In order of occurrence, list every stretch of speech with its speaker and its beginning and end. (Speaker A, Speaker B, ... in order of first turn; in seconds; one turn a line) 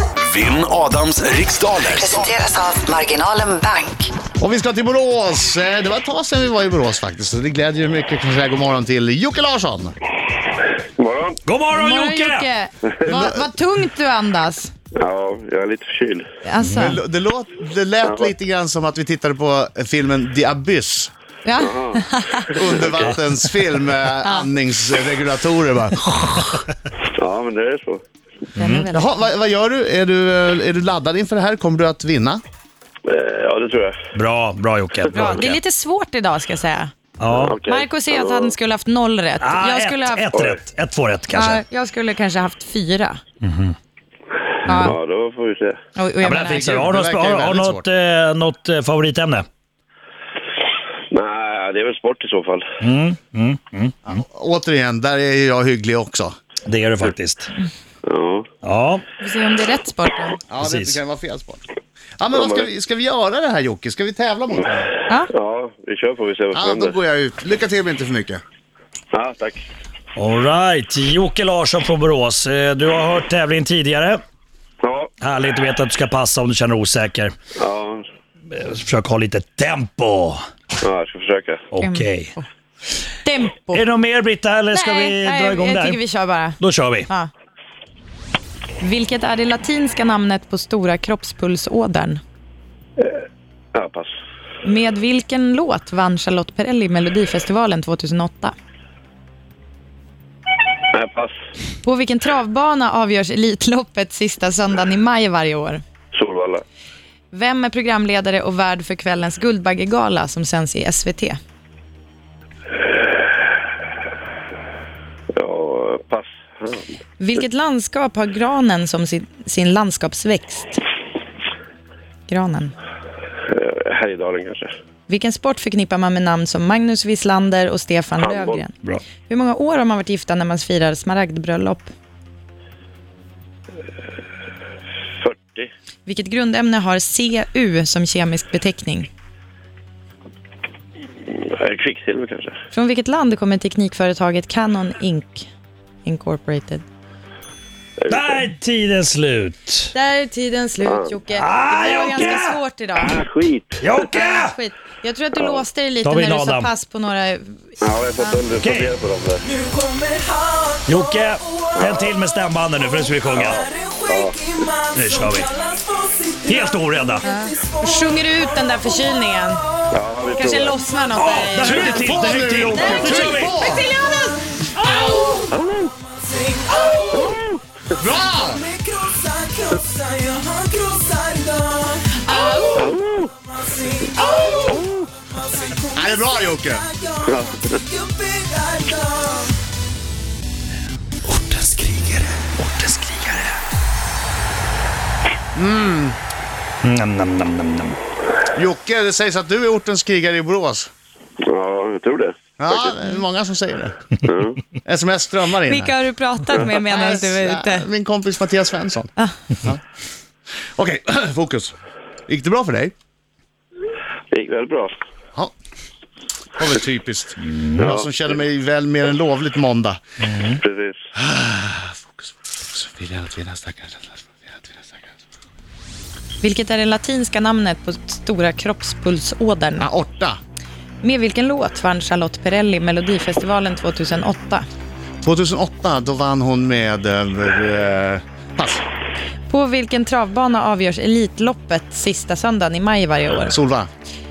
Speaker A: 0.2-2.3
Speaker B: 1.9-4.1
Speaker C: 4.4-9.9
Speaker D: 10.8-11.4
Speaker E: 11.5-12.5
Speaker F: 11.7-14.7
Speaker C: 13.1-13.4
Speaker D: 14.9-16.3
Speaker F: 16.4-17.0
Speaker E: 16.6-17.0
Speaker C: 16.7-21.1
Speaker D: 18.0-18.3
Speaker F: 21.4-22.5
Speaker D: 21.6-22.1
Speaker C: 22.5-26.2
Speaker D: 22.6-23.2
Speaker F: 24.2-24.5
Speaker D: 27.1-28.0
Speaker E: 28.6-28.9
Speaker F: 28.6-29.3
Speaker C: 28.9-32.4
Speaker D: 33.0-34.0
Speaker E: 34.1-35.6
Speaker F: 35.1-36.9
Speaker E: 37.2-37.6
Speaker D: 37.3-38.5
Speaker F: 37.6-40.3
Speaker E: 39.4-41.6
Speaker D: 40.3-40.6
Speaker F: 41.3-43.2
Speaker E: 43.4-43.8
Speaker F: 44.7-44.9
Speaker E: 44.7-44.9
Speaker D: 44.7-45.8
Speaker F: 46.0-46.8
Speaker E: 46.2-49.5
Speaker C: 46.3-47.9
Speaker D: 51.1-52.7
Speaker E: 52.8-54.2
Speaker C: 54.1-56.4
Speaker E: 56.6-57.5
Speaker D: 58.1-58.5
Speaker E: 58.6-59.0
Speaker F: 59.2-60.4
Speaker C: 60.5-61.6
Speaker E: 60.6-61.0
Speaker C: 62.2-64.9
Speaker D: 62.3-62.7
Speaker D: 65.3-67.0
Speaker C: 66.5-68.4
Speaker D: 69.1-69.6
Speaker E: 70.2-74.2
Speaker D: 74.8-75.1
Speaker E: 75.2-77.3
Speaker D: 77.6-78.0
Speaker E: 78.5-80.4
Speaker D: 80.8-81.7
Speaker E: 81.7-82.3
Speaker F: 81.8-82.5
Speaker F: 83.2-83.8
Speaker E: 83.7-86.0
Speaker F: 84.7-87.3
Speaker E: 86.6-87.1
Speaker F: 88.8-92.2
Speaker D: 93.7-94.1
Speaker F: 94.6-98.5
Speaker D: 100.9-101.3
Speaker F: 101.8-105.8
Speaker D: 106.1-106.6
Speaker F: 107.3-111.4
Speaker D: 115.3-117.0
Speaker F: 117.2-120.8
Speaker F: 122.3-122.7
Speaker D: 123.5-124.7
Speaker F: 125.1-131.9
Speaker D: 128.2-128.6
Speaker D: 135.2-135.7
Speaker F: 136.1-139.1
Speaker D: 141.3-142.6
Speaker F: 142.7-145.5
Speaker F: 146.0-146.8
Speaker D: 148.0-148.5
Speaker E: 148.1-149.9
Speaker F: 149.9-153.2
Speaker D: 150.8-151.1
Speaker E: 151.3-152.6
Speaker D: 152.0-152.4
Speaker D: 153.0-153.8
Speaker E: 153.8-154.6
Speaker F: 154.0-157.6
Speaker D: 155.4-155.6
Speaker E: 156.0-156.7
Speaker D: 157.8-159.4
Speaker E: 158.6-159.0
Speaker E: 160.8-163.6
Speaker D: 161.8-162.0
Speaker D: 163.3-164.5
Speaker E: 164.9-165.6
Speaker E: 166.4-167.2
Speaker F: 167.2-169.6
Speaker D: 169.9-170.8
Speaker F: 170.3-172.1
Speaker E: 171.2-173.6
Speaker C: 171.8-173.9
Speaker F: 172.7-174.5
Speaker D: 175.5-175.9
Speaker D: 177.1-177.6
Speaker C: 178.0-178.8
Speaker F: 182.2-182.9
Speaker D: 182.7-183.3
Speaker C: 185.9-186.9
Speaker D: 187.2-187.8
Speaker A: 191.3-192.5
Speaker E: 192.6-193.5
Speaker C: 195.6-196.2
Speaker E: 196.8-198.0
Speaker C: 198.5-200.9
Speaker D: 201.4-202.8
Speaker C: 202.6-204.1
Speaker D: 204.2-204.6
Speaker C: 204.8-206.0
Speaker F: 205.7-207.9
Speaker C: 206.6-209.8
Speaker C: 210.8-211.8
Speaker C: 212.3-212.9
Speaker D: 214.3-214.9
Speaker C: 216.6-220.0
Speaker E: 217.5-217.8
Speaker D: 217.8-218.1
Speaker E: 220.2-220.6
Speaker D: 220.6-221.0
Speaker C: 221.2-225.1
Speaker F: 226.4-229.9
Speaker C: 229.8-230.4
Speaker F: 231.0-234.7
Speaker C: 235.2-238.8
Speaker F: 239.5-243.6
Speaker C: 243.5-243.9